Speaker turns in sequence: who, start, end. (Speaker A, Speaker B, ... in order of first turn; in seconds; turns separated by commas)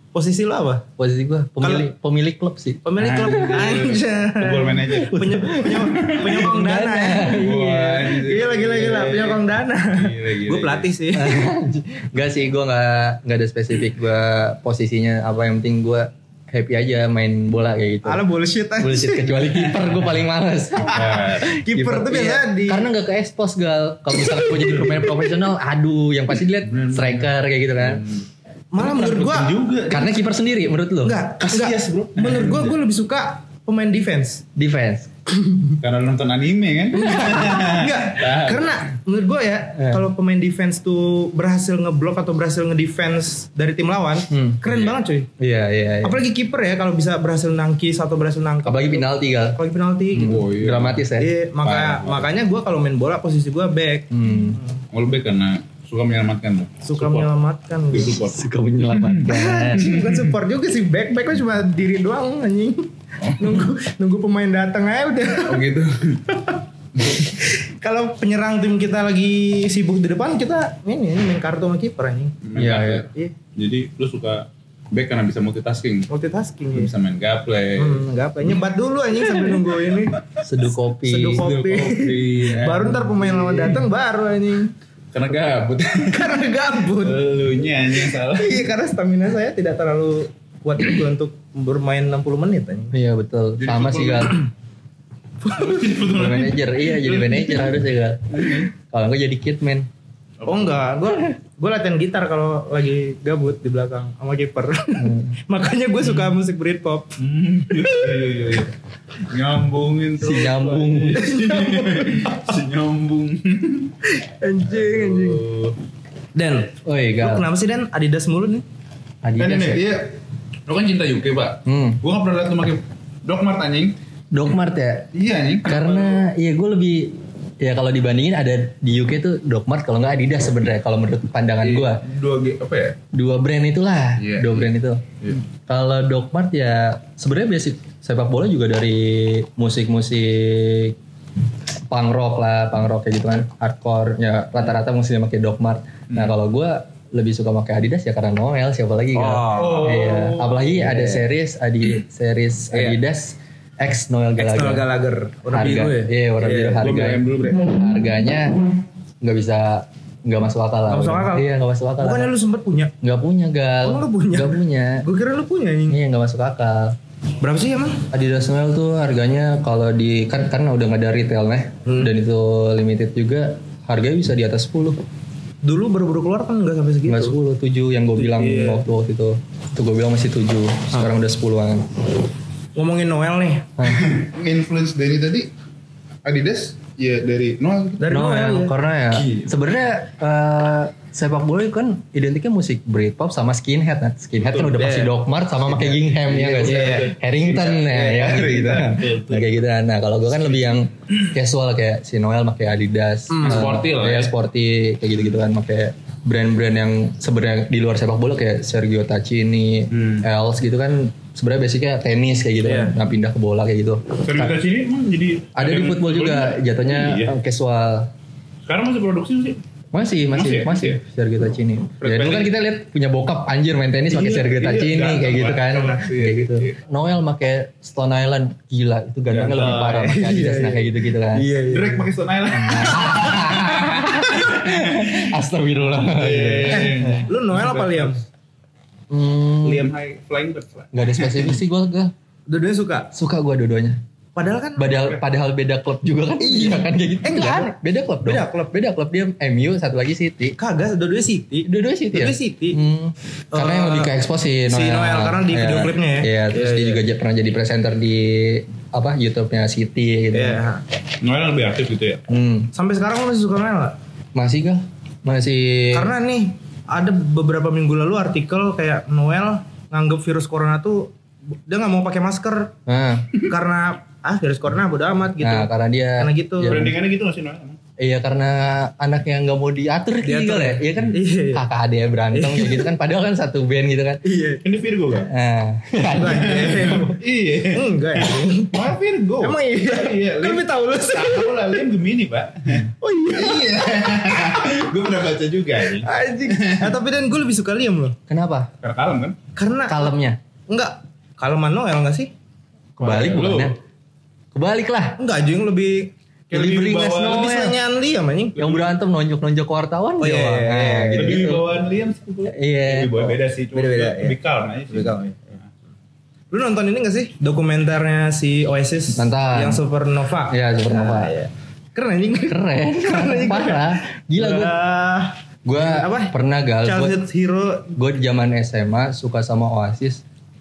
Speaker A: 0.1-0.9, Speaker B: 1.0-2.8, Speaker A: 1.6-1.9, Speaker A: 2.8-11.4, Speaker C: 3.0-6.4, Speaker B: 5.1-8.1, Speaker C: 7.1-10.9, Speaker B: 11.1-18.2, Speaker A: 18.0-19.6, Speaker B: 18.8-21.2, Speaker C: 19.5-19.9, Speaker A: 20.8-22.9, Speaker C: 20.9-21.5, Speaker B: 21.7-28.0, Speaker C: 26.7-28.2, Speaker A: 28.7-29.6, Speaker C: 28.8-30.1, Speaker B: 29.9-31.2, Speaker A: 31.0-34.4, Speaker C: 31.4-32.8, Speaker B: 34.5-35.1, Speaker A: 35.5-35.7, Speaker C: 35.8-38.8, Speaker A: 36.9-45.3, Speaker B: 39.8-40.0, Speaker B: 44.3-44.6, Speaker C: 44.6-45.0, Speaker B: 45.4-46.2, Speaker A: 46.0-50.4, Speaker B: 48.6-49.6, Speaker B: 50.1-51.3, Speaker C: 50.1-51.1, Speaker A: 51.1-54.8, Speaker C: 51.6-52.4, Speaker B: 54.1-54.6, Speaker C: 54.9-57.3, Speaker A: 56.8-58.1, Speaker C: 57.9-60.3, Speaker B: 58.2-59.9, Speaker A: 59.3-65.6, Speaker C: 63.2-63.7, Speaker C: 65.5-67.4, Speaker A: 67.2-72.4, Speaker C: 72.4-76.1, Speaker B: 72.5-73.1, Speaker A: 76.1-76.9, Speaker C: 76.7-78.0, Speaker A: 77.8-80.2, Speaker C: 79.3-79.7, Speaker B: 80.4-81.5, Speaker A: 81.0-84.7, Speaker C: 81.3-83.8, Speaker C: 85.1-88.7, Speaker A: 86.0-87.2, Speaker A: 88.0-92.9, Speaker B: 92.9-94.3, Speaker C: 93.6-94.5, Speaker C: 95.4-98.7, Speaker B: 96.1-99.9, Speaker C: 100.4-100.9, Speaker A: 100.5-107.1, Speaker B: 105.0-105.4, Speaker C: 107.2-114.0, Speaker A: 107.8-108.4, Speaker B: 110.2-111.2, Speaker A: 111.1-112.4, Speaker A: 114.0-115.4, Speaker C: 114.7-115.7, Speaker A: 116.3-118.6, Speaker B: 116.8-117.5, Speaker B: 119.2-119.8, Speaker C: 119.4-123.9, Speaker B: 121.7-122.0, Speaker B: 124.3-125.1, Speaker C: 125.1-126.2, Speaker B: 125.7-132.0, Speaker C: 131.6-133.0, Speaker B: 133.1-135.1, Speaker C: 134.2-134.7, Speaker B: 135.7-140.9, Speaker B: 141.9-154.8, Speaker A: 149.1-149.9, Speaker C: 149.5-151.1, Speaker A: 152.7-153.0, Speaker A: 154.4-156.9, Speaker B: 155.5-158.6, Speaker C: 156.8-157.8, Speaker B: 159.2-162.3, Speaker A: 160.9-162.9, Speaker B: 163.0-165.1, Speaker A: 163.8-166.0, Speaker B: 165.9-166.9, Speaker A: 167.4-168.1, Speaker B: 168.1-175.0, Speaker A: 171.8-172.1, Speaker A: 175.6-177.3, Speaker B: 177.1-181.9, Speaker A: 178.2-178.8, Speaker A: 182.8-183.8, Speaker B: 183.8-184.0, Speaker C: 183.9-185.5, Speaker C: 186.2-188.2, Speaker A: 188.0-188.8, Speaker B: 188.1-214.6, Speaker C: 189.1-189.5, Speaker C: 194.4-195.1, Speaker C: 195.7-199.5, Speaker A: 196.5-197.1, Speaker A: 203.3-203.6, Speaker C: 203.4-204.3, Speaker C: 209.9-210.2, Speaker A: 212.6-212.9, Speaker C: 214.2-217.3, Speaker B: 215.6-218.1, Speaker C: 218.7-219.6, Speaker B: 219.9-231.4, Speaker C: 220.3-221.0, Speaker C: 222.0-222.5, Speaker C: 224.1-226.8, Speaker C: 229.3-230.1, Speaker A: 229.6-232.1, Speaker C: 231.7-235.4, Speaker B: 232.5-237.2, Speaker C: 236.0-238.2, Speaker A: 236.7-238.2, Speaker B: 239.1-239.9, Speaker C: 239.6-241.5, Speaker B: 240.9-242.1, Speaker A: 242.5-243.1, Speaker B: 243.1-244.0, Speaker A: 244.3-244.9, Speaker B: 244.8-250.6, Speaker C: 244.9-245.2, Speaker A: 246.4-248.7, Speaker A: 250.6-252.8, Speaker B: 251.6-260.6, Speaker A: 253.5-254.1, Speaker A: 254.7-257.0, Speaker A: 260.3-260.8, Speaker C: 261.2-262.2, Speaker B: 262.3-262.7, Speaker A: 262.7-263.9, Speaker B: 264.3-266.1, Speaker A: 265.9-271.1, Speaker A: 271.7-272.7, Speaker B: 272.9-273.3, Speaker A: 273.4-276.9, Speaker B: 275.4-277.0, Speaker C: 276.6-277.8, Speaker B: 278.0-284.2, Speaker A: 280.2-281.6, Speaker A: 282.3-282.9, Speaker A: 284.2-284.6, Speaker C: 284.6-285.3, Speaker B: 285.3-286.9, Speaker A: 286.1-287.2, Speaker C: 286.3-296.9, Speaker A: 287.7-288.9, Speaker A: 289.4-291.8, Speaker A: 293.0-294.7, Speaker A: 295.9-298.2, Speaker B: 298.3-298.7, Speaker C: 298.8-299.4, Speaker A: 299.5-300.1, Speaker B: 299.9-300.4, Speaker A: 300.7-302.3, Speaker B: 303.0-303.7, Speaker C: 303.0-303.7, Speaker B: 304.5-305.2, Speaker A: 305.2-306.1, Speaker C: 306.5-307.6, Speaker B: 306.5-307.8, Speaker A: 307.1-308.6, Speaker C: 308.6-308.9, Speaker B: 308.6-311.8, Speaker A: 310.2-311.4, Speaker C: 311.1-315.6, Speaker B: 312.4-313.3, Speaker A: 313.7-314.3, Speaker A: 314.9-315.2, Speaker A: 316.5-327.9, Speaker B: 319.1-319.8, Speaker B: 320.5-321.3, Speaker B: 322.5-324.7, Speaker B: 325.6-327.2, Speaker B: 327.9-330.2